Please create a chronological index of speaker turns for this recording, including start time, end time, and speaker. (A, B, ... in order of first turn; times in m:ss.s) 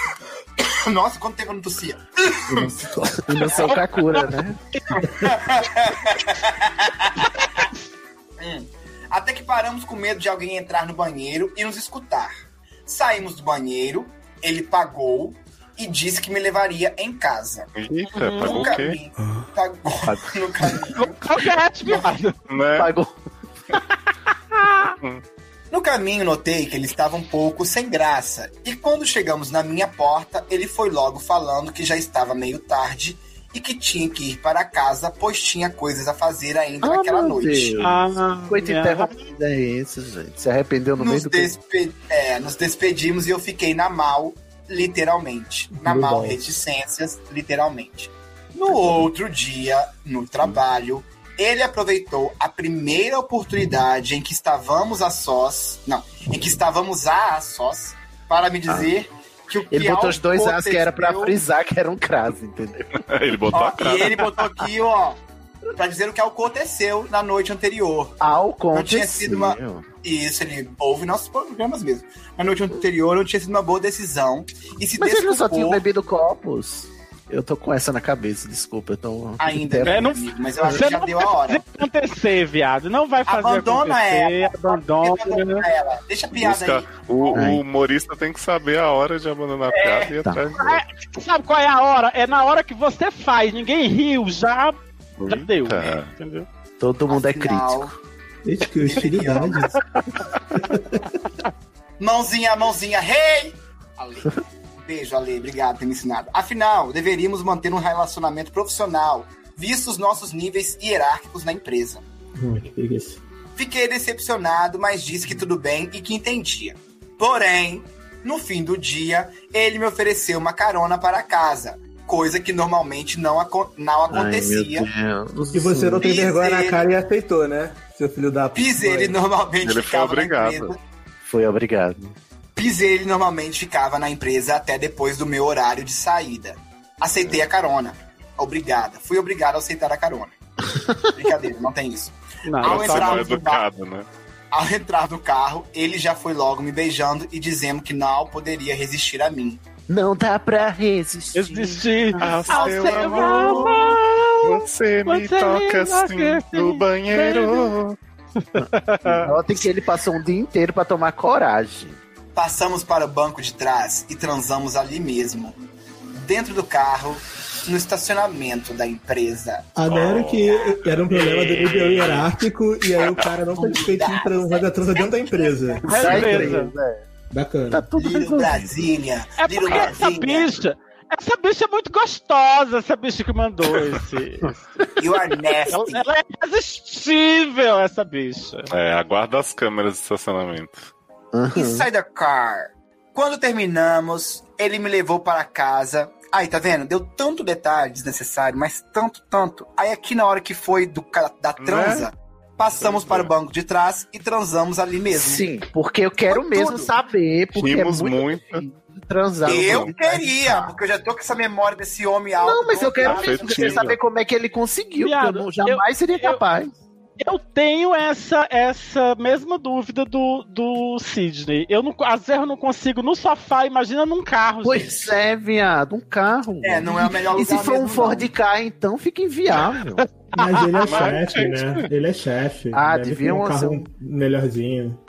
0:00.6-0:02.7 A
0:02.5-0:04.6 B
0:03.4-0:03.7 A
0:03.5-0:05.0 C
0:05.0-0:07.7 A
0:08.4-0:12.3 A
0:12.9-0:17.7 A
0:17.8-0:19.0 D
0:18.1-0:18.8 C
0:18.4-0:22.0 A
0:20.9-0:22.4 C
0:22.5-0:22.9 D
0:22.8-0:23.2 B
0:24.6-0:24.9 C
0:25.7-0:37.8 A
0:36.8-0:41.5 B
0:37.8-0:39.3 C
0:41.0-1:01.4 A
0:45.7-0:46.5 E
0:48.7-0:49.0 B
0:58.7-0:58.9 B
0:59.7-1:03.0 B
1:03.0-1:04.2 D
1:03.5-1:05.2 A
1:05.7-1:08.2 A
1:08.2-1:09.8 B
1:08.7-1:15.8 A
1:15.0-1:20.1 B
1:19.4-1:21.6 A
1:19.8-1:25.6 C
1:23.3-1:27.4 A
1:26.4-1:30.8 D
1:27.3-1:27.6 B
1:29.7-1:30.1 A
1:30.6-1:36.5 C
1:35.2-1:36.1 D
1:36.8-1:38.0 B
1:37.1-1:37.9 A
1:38.4-1:39.8 E
1:38.8-1:39.8 A
1:40.6-1:41.0 E
1:42.0-1:52.0 A
1:52.4-1:53.2 E
1:53.6-2:04.9 A
2:04.1-2:06.1 B
2:05.5-2:09.2 E
2:06.0-2:06.8 A
2:08.5-2:10.8 A
2:09.6-2:10.7 D
2:11.2-2:12.2 B
2:12.6-2:20.3 A
2:20.6-2:21.1 B
2:21.1-2:23.6 A
2:22.4-2:23.3 C
2:22.6-2:24.1 D
2:24.5-2:29.6 A
2:29.9-2:32.3 B
2:31.3-2:37.7 C
2:32.2-2:33.8 D
2:32.4-2:34.0 A
2:34.4-2:38.0 D
2:38.4-2:39.4 C
2:38.6-2:42.0 B
2:42.3-2:45.5 A
2:46.2-2:49.7 A
2:49.7-2:56.3 E
2:49.9-2:52.3 D
2:53.5-2:56.5 A
2:55.9-2:56.7 C
2:55.9-2:57.0 B
2:57.3-2:57.8 E
2:57.7-2:58.8 B
2:57.9-3:00.5 A
2:59.4-3:04.6 C
3:05.0-3:06.0 A
3:05.7-3:08.7 C
3:08.7-3:10.9 D
3:11.3-3:11.8 B
3:11.5-3:25.4 A
3:21.6-3:22.1 D
3:22.8-3:23.3 D
3:25.1-3:30.7 B
3:26.3-3:26.9 A
3:27.5-3:28.6 D
3:29.4-3:29.9 D
3:29.4-3:33.9 A
3:32.4-3:36.7 B
3:33.0-3:34.0 D
3:35.0-3:36.4 C
3:37.2-3:45.1 C
3:44.6-3:50.0 B
3:46.6-3:48.3 A
3:50.0-3:51.8 C
3:50.4-3:55.0 E
3:50.8-3:51.4 D
3:52.7-3:53.8 B